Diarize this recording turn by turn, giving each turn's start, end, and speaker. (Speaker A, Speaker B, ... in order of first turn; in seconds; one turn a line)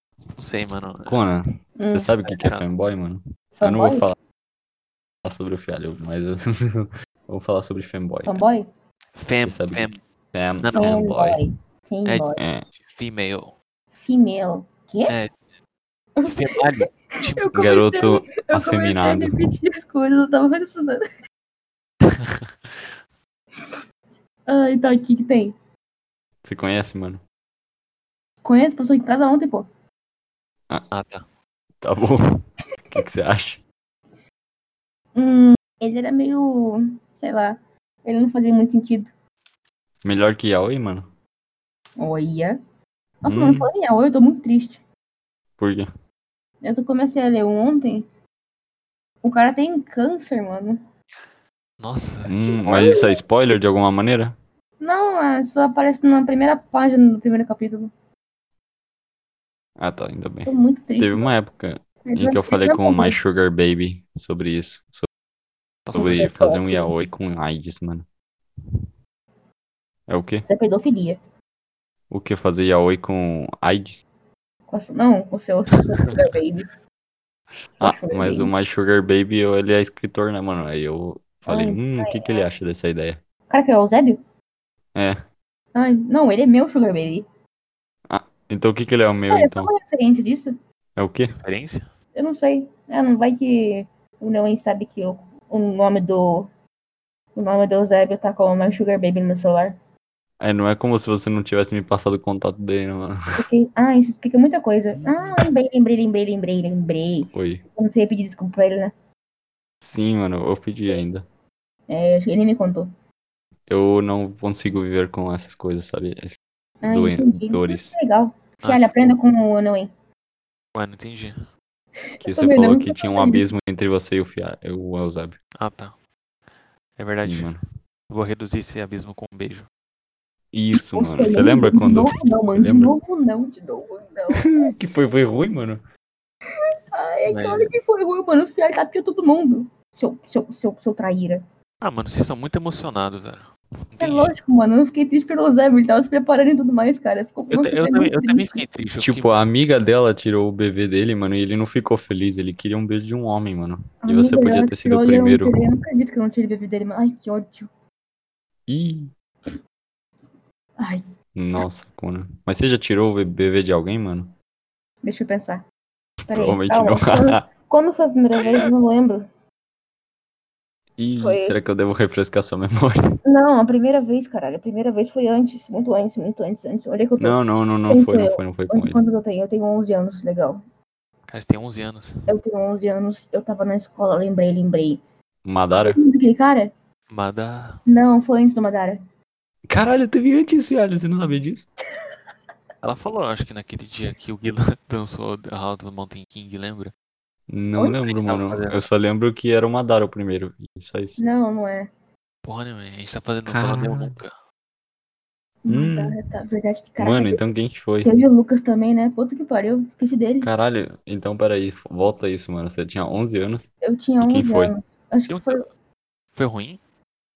Speaker A: 0.4-1.2
Speaker B: 1.0-4.2
Speaker C: 1.8-2.1
Speaker A: 2.2-2.7
Speaker C: 3.5-4.1
Speaker B: 5.2-8.4
Speaker C: 8.2-8.7
Speaker A: 9.2-10.0
Speaker B: 9.4-11.4
Speaker A: 10.6-11.0
Speaker C: 10.7-12.4
Speaker A: 12.1-13.6
Speaker B: 12.4-12.6
Speaker C: 13.9-15.1
Speaker A: 15.1-15.3
Speaker C: 16.2-16.6
Speaker A: 16.3-17.5
Speaker C: 17.2-21.0
Speaker B: 17.5-19.5
Speaker A: 22.0-22.9
Speaker C: 24.5-25.5
Speaker B: 26.4-27.2
Speaker C: 28.4-29.7
Speaker A: 30.9-31.2
Speaker B: 31.8-33.6
Speaker C: 35.1-39.1
Speaker B: 40.0-41.1
Speaker C: 42.0-42.6
Speaker C: 43.2-44.8
Speaker B: 43.2-43.7
Speaker B: 45.6-45.9
Speaker C: 46.6-48.0
Speaker C: 49.2-50.8
Speaker A: 51.8-52.6
Speaker B: 52.2-54.4
Speaker C: 52.4-53.2
Speaker C: 54.8-57.9
Speaker B: 59.8-65.1
Speaker C: 60.5-61.3
Speaker C: 62.1-63.2
Speaker A: 65.8-66.3
Speaker C: 65.9-66.9
Speaker B: 65.9-68.1
Speaker B: 70.1-70.5
Speaker C: 70.5-71.2
Speaker B: 72.1-74.0
Speaker C: 74.7-76.7
Speaker C: 77.8-78.5
Speaker B: 77.8-83.2
Speaker C: 81.5-82.4
Speaker C: 83.5-84.2
Speaker C: 85.7-87.2
Speaker B: 88.1-89.7
Speaker C: 89.3-90.5
Speaker B: 91.0-91.3
Speaker A: 91.4-91.8
Speaker C: 92.2-96.5
Speaker C: 97.3-99.8
Speaker B: 100.4-103.2
Speaker C: 103.3-108.9
Speaker B: 105.0-105.4
Speaker B: 107.3-107.6
Speaker B: 109.8-111.2
Speaker C: 111.9-112.9
Speaker B: 113.7-116.4
Speaker C: 116.8-119.9
Speaker B: 116.9-118.0
Speaker A: 118.6-119.2
Speaker A: 120.7-121.4
Speaker C: 122.2-123.5
Speaker B: 122.2-125.4
Speaker A: 125.6-125.9
Speaker A: 127.0-127.5
Speaker B: 127.1-127.6
Speaker A: 128.1-129.7
Speaker B: 130.5-132.9
Speaker C: 130.8-134.7
Speaker B: 134.4-135.8
Speaker C: 136.9-141.4
Speaker A: 137.3-137.7
Speaker A: 141.8-144.3
Speaker C: 144.0-148.6
Speaker A: 147.5-149.4
Speaker B: 149.0-155.6
Speaker C: 154.0-157.7
Speaker B: 158.7-159.1
Speaker C: 160.8-161.6
Speaker B: 161.3-164.3
Speaker C: 165.0-165.6
Speaker B: 166.2-167.5
Speaker C: 166.3-169.3
Speaker B: 171.0-173.2
Speaker C: 171.2-171.6
Speaker C: 173.2-180.6
Speaker B: 177.2-179.0
Speaker A: 181.3-182.3
Speaker C: 182.3-185.0
Speaker B: 185.4-186.0
Speaker C: 185.7-186.7
Speaker A: 187.1-187.8
Speaker C: 187.9-189.0
Speaker B: 189.7-191.7
Speaker A: 192.8-196.9
Speaker B: 197.5-201.2
Speaker A: 198.0-198.8
Speaker C: 201.2-201.9
Speaker A: 202.4-204.3
Speaker B: 203.5-204.2
Speaker C: 205.6-207.4
Speaker B: 205.7-206.2
Speaker B: 207.0-208.2
Speaker C: 208.0-210.5
Speaker B: 210.4-214.7
Speaker C: 213.8-215.6
Speaker A: 215.3-215.7
Speaker A: 216.3-216.8